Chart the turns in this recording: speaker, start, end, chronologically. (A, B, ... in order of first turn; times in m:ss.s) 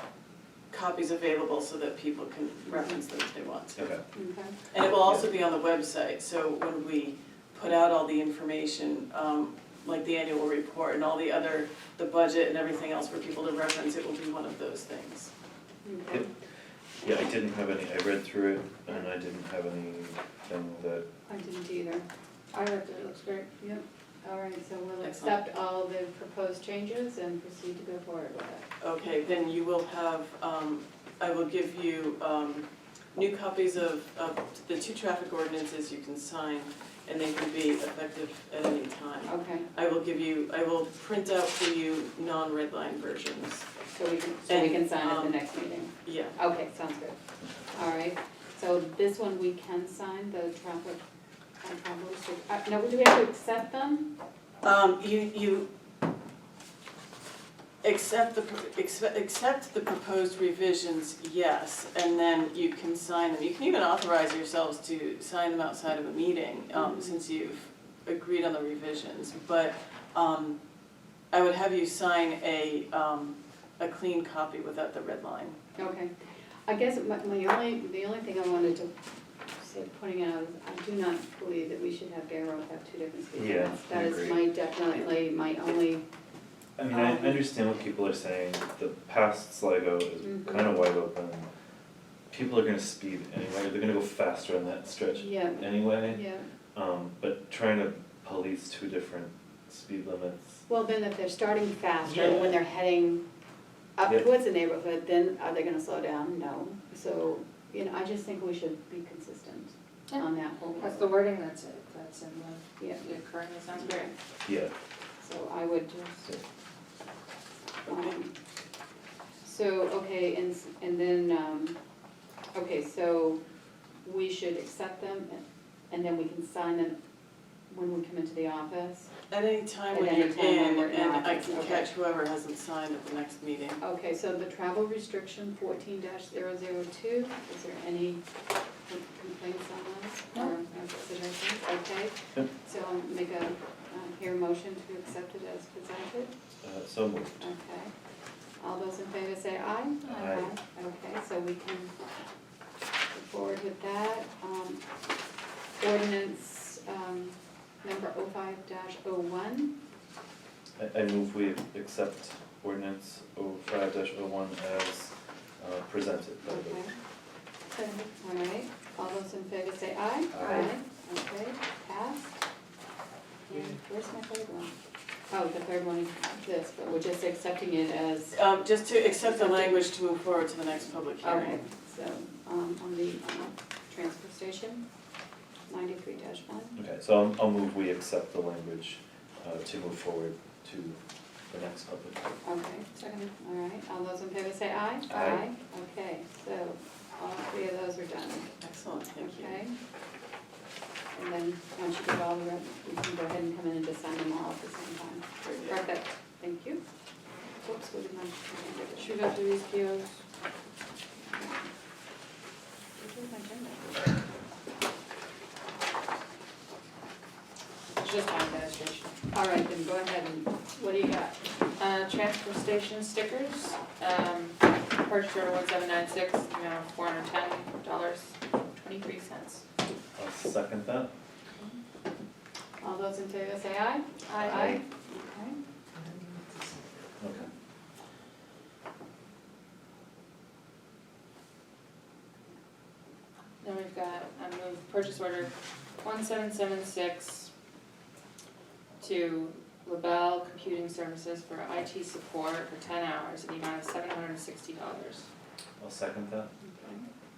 0:00.7-0:03.9 A
0:02.7-0:02.9 B
0:03.8-0:04.0 C
0:04.1-0:04.6 B
0:04.7-0:15.3 A
0:04.9-0:05.2 C
0:15.8-0:16.2 B
0:17.0-0:21.0 C
0:21.3-0:22.0 B
0:22.5-0:23.6 D
0:23.6-0:28.6 B
0:25.0-0:25.4 A
0:28.8-0:43.7 A
0:39.2-0:39.7 B
0:43.9-0:47.2 B
0:44.5-0:45.4 A
0:46.0-0:46.4 A
0:47.7-0:51.0 B
0:51.6-0:54.1 B
0:54.6-0:55.7 A
0:57.8-1:10.6 A
1:06.7-1:07.2 B
1:11.3-1:15.6 A
1:15.8-1:16.1 B
1:16.6-1:18.9 B
1:19.6-1:26.0 B
1:23.3-1:24.4 C
1:26.8-1:31.5 C
1:26.9-1:27.4 B
1:30.2-1:30.8 B
1:32.3-1:40.6 C
1:35.2-1:36.4 B
1:40.7-1:43.2 B
1:42.1-1:42.6 C
1:44.0-1:51.1 B
1:50.1-1:54.1 D
1:52.8-1:53.1 B
1:53.7-1:54.1 B
1:54.4-1:54.7 C
1:55.2-1:56.3 B
1:57.8-1:58.3 B
1:59.4-2:01.8 B
2:02.5-2:03.4 B
2:04.0-2:07.0 B
2:07.7-2:09.1 B
2:09.3-2:13.8 A
2:09.9-2:11.9 B
2:13.8-2:18.2 B
2:18.9-2:26.3 B
2:26.6-2:27.4 C
2:27.4-2:27.9 B
2:28.6-2:31.9 B
2:30.0-2:30.5 C
2:33.1-2:34.8 B
2:35.8-2:39.7 B
2:40.8-2:46.8 C
2:46.4-2:46.9 B
2:47.7-2:52.4 B
2:50.3-2:50.7 C
2:53.5-2:54.7 B
2:55.3-2:58.5 B
2:58.3-3:01.6 A
2:59.0-2:59.8 B
3:01.2-3:04.8 B
3:05.7-3:06.8 B
3:06.8-3:11.0 C
3:11.5-3:12.4 C
3:12.4-3:18.5 B
3:12.9-3:13.3 D
3:15.1-3:15.4 C
3:18.6-3:19.6 A
3:19.2-3:19.7 B
3:21.1-3:26.8 B
3:25.4-3:25.8 A
3:27.6-3:29.3 B
3:29.0-3:30.2 D
3:31.3-3:31.6 B
3:33.0-3:34.1 B
3:38.0-3:39.1 D
3:39.3-3:41.4 B
3:41.8-3:49.6 D
3:50.2-3:51.1 C
3:52.8-3:55.5 B
3:54.2-3:54.8 D
3:54.4-3:54.8 C
3:57.2-3:57.5 C
4:03.6-4:07.5 D
4:09.0-4:15.3 D
4:15.8-4:16.5 C
4:16.6-4:17.1 B